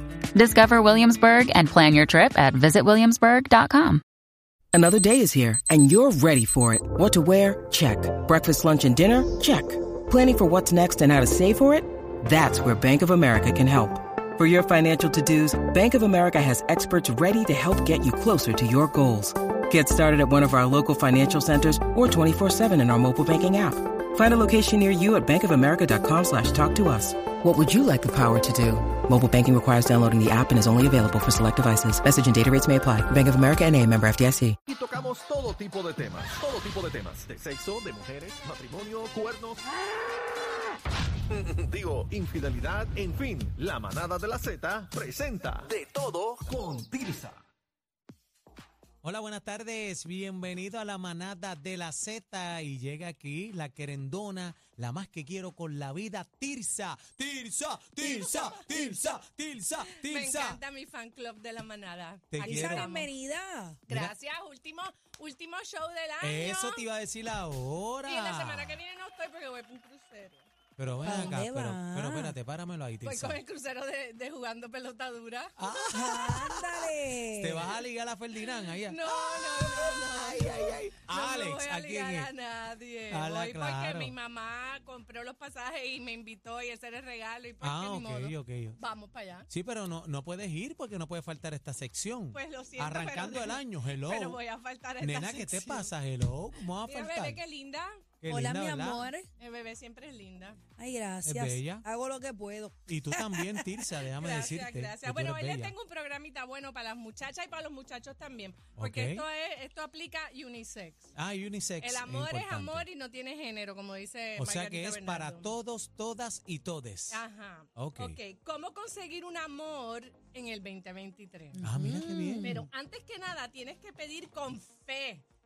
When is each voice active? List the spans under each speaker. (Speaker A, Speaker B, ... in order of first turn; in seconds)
Speaker A: 0.3-4.0
Speaker B: 4.7-34.6
Speaker C: 34.7-39.6, 41.3-47.3
Speaker D: 49.0-60.6, 62.3-62.9, 66.2-68.8, 70.8-73.4, 75.6-76.5, 77.3-82.3, 83.1-84.1, 87.6-88.8, 89.5-94.4, 95.0-97.4, 98.2-99.1, 101.2-101.8, 102.9-105.7, 108.8-109.3, 111.1-112.9, 114.4-117.2, 117.8-118.2, 121.6-122.6
Speaker E: 58.0-59.1, 59.8-63.1, 63.9-66.8, 68.0-70.5, 71.0-71.4, 73.0-76.9, 78.4-89.5, 92.3-95.9, 96.8-98.0, 99.4-100.6, 104.2-111.1, 111.8-115.6, 117.1-121.6, 122.4-125.2
Speaker F: 62.4-63.8, 71.0-72.4, 75.9-77.7, 98.3-99.3, 100.8-103.8, 121.5-122.7